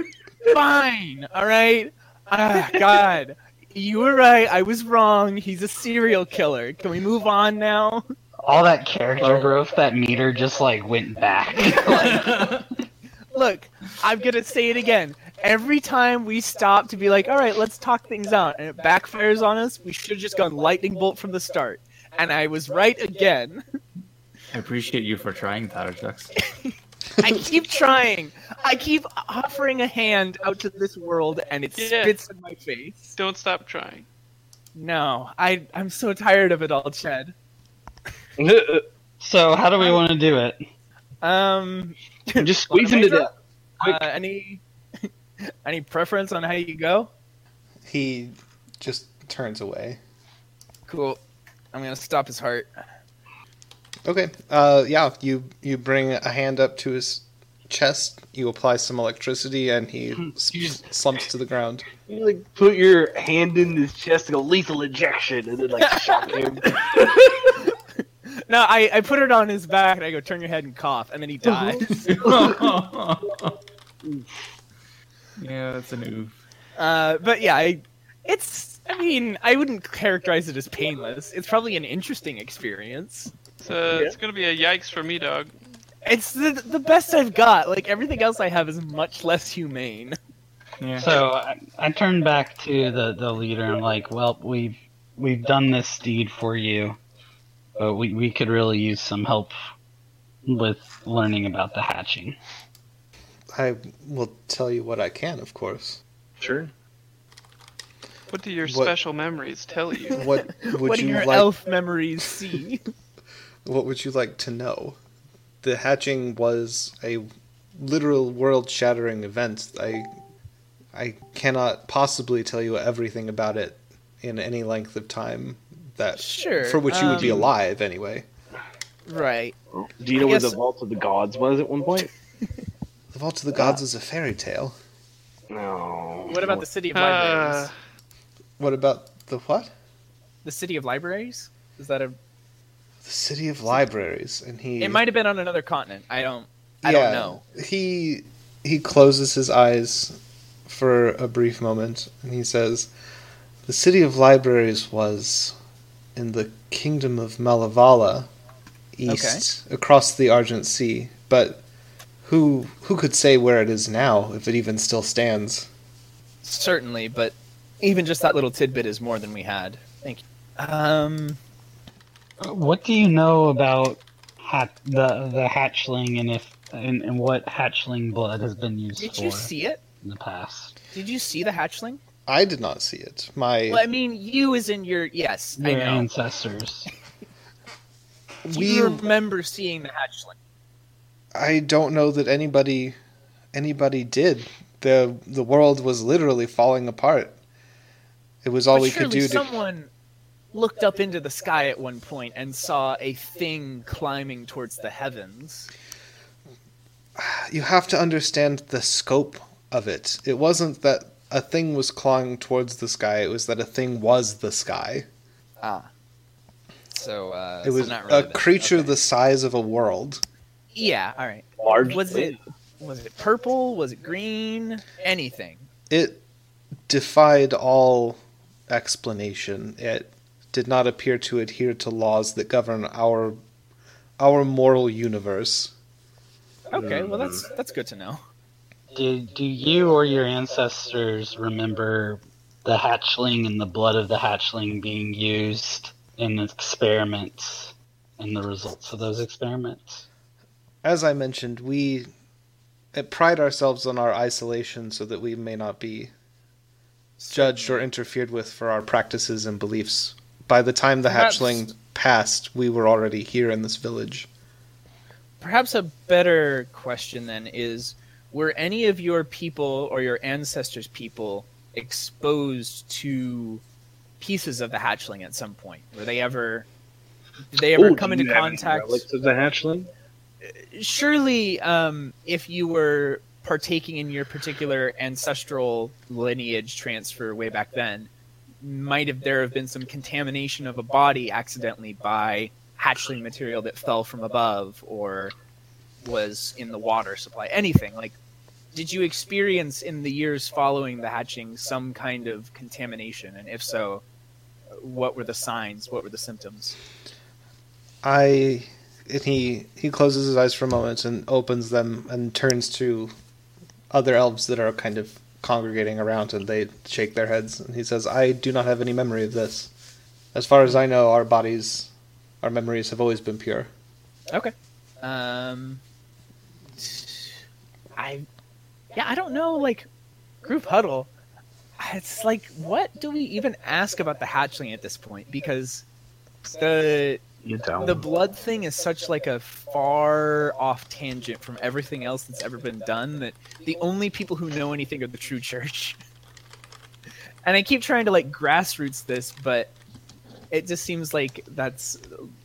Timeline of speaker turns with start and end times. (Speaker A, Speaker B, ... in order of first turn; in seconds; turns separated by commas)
Speaker A: 0.4-8.0, Speaker B: 8.4-12.5, Speaker A: 11.7-12.3, Speaker C: 12.1-12.6, Speaker A: 13.3-23.6, Speaker C: 24.5-26.3, Speaker A: 27.2-33.2, Speaker D: 31.8-32.2, Speaker D: 33.2-34.0, Speaker A: 34.8-37.3, Speaker E: 38.4-38.9, Speaker B: 39.2-40.6, Speaker A: 41.2-43.3, Speaker E: 42.4-44.1, Speaker A: 43.8-47.1, Speaker F: 47.9-50.0, Speaker A: 50.9-51.2, Speaker A: 51.7-52.7, Speaker F: 54.1-61.9, Speaker E: 62.0-66.8, Speaker A: 65.8-67.7, Speaker A: 68.3-71.9, Speaker C: 71.9-73.6, Speaker C: 75.4-76.3, Speaker A: 76.8-83.3, Speaker D: 83.6-85.5, Speaker E: 83.9-84.2, Speaker A: 86.0-90.2, Speaker C: 90.8-91.1, Speaker B: 91.0-97.0, Speaker B: 97.8-99.5, Speaker B: 100.5-102.4, Speaker F: 103.5-106.0, Speaker E: 106.4-106.7, Speaker D: 108.3-110.2, Speaker F: 108.7-108.9, Speaker F: 110.1-111.5, Speaker A: 110.6-112.8, Speaker F: 113.7-115.0, Speaker F: 115.6-120.1, Speaker F: 120.9-128.3, Speaker A: 126.2-127.4, Speaker A: 129.1-129.6, Speaker E: 129.8-132.1, Speaker A: 130.2-130.6, Speaker F: 133.1-134.8, Speaker E: 135.5-136.6, Speaker A: 136.3-137.7, Speaker D: 136.9-137.7, Speaker F: 138.6-139.7, Speaker A: 140.4-142.2, Speaker F: 143.0-145.0, Speaker A: 144.8-147.4, Speaker F: 146.8-152.9, Speaker F: 153.7-155.6, Speaker F: 156.2-158.3, Speaker F: 159.0-161.6, Speaker A: 159.1-159.4, Speaker F: 162.2-165.7, Speaker A: 166.4-171.4, Speaker B: 172.4-179.5, Speaker A: 179.0-179.8, Speaker B: 180.0-180.8, Speaker A: 180.9-182.0, Speaker F: 182.3-183.8, Speaker A: 183.7-186.1, Speaker B: 185.6-186.9, Speaker F: 188.5-189.1, Speaker A: 188.5-190.3, Speaker F: 191.3-193.0, Speaker F: 193.5-197.4, Speaker F: 198.4-199.5, Speaker A: 198.7-199.9, Speaker A: 200.5-205.7, Speaker F: 207.2-215.1, Speaker A: 215.6-215.9, Speaker A: 216.9-218.9, Speaker F: 217.6-220.2, Speaker A: 220.8-225.7, Speaker E: 221.6-222.4, Speaker F: 225.9-226.2, Speaker F: 226.9-233.4, Speaker F: 234.2-235.7, Speaker A: 236.7-238.2, Speaker E: 236.7-237.5, Speaker B: 238.9-250.0, Speaker F: 250.8-252.1, Speaker F: 252.9-256.1, Speaker A: 257.2-257.9, Speaker F: 257.3-264.3, Speaker A: 261.1-261.7, Speaker A: 265.4-273.6, Speaker A: 274.2-276.7, Speaker A: 277.5-279.0, Speaker E: 277.7-279.9, Speaker A: 280.4-288.1, Speaker A: 288.6-295.3, Speaker A: 296.0-298.2, Speaker A: 298.7-304.0, Speaker A: 304.8-306.8, Speaker F: 308.0-313.1, Speaker F: 313.9-319.7, Speaker F: 320.3-321.9, Speaker F: 322.4-323.7, Speaker A: 324.3-325.8, Speaker A: 326.8-327.4, Speaker A: 327.9-328.3, Speaker A: 328.9-329.9, Speaker A: 330.4-331.1, Speaker A: 331.8-335.9, Speaker A: 336.5-337.2, Speaker E: 337.4-338.1, Speaker A: 337.8-346.0, Speaker A: 347.4-349.7, Speaker A: 350.5-352.3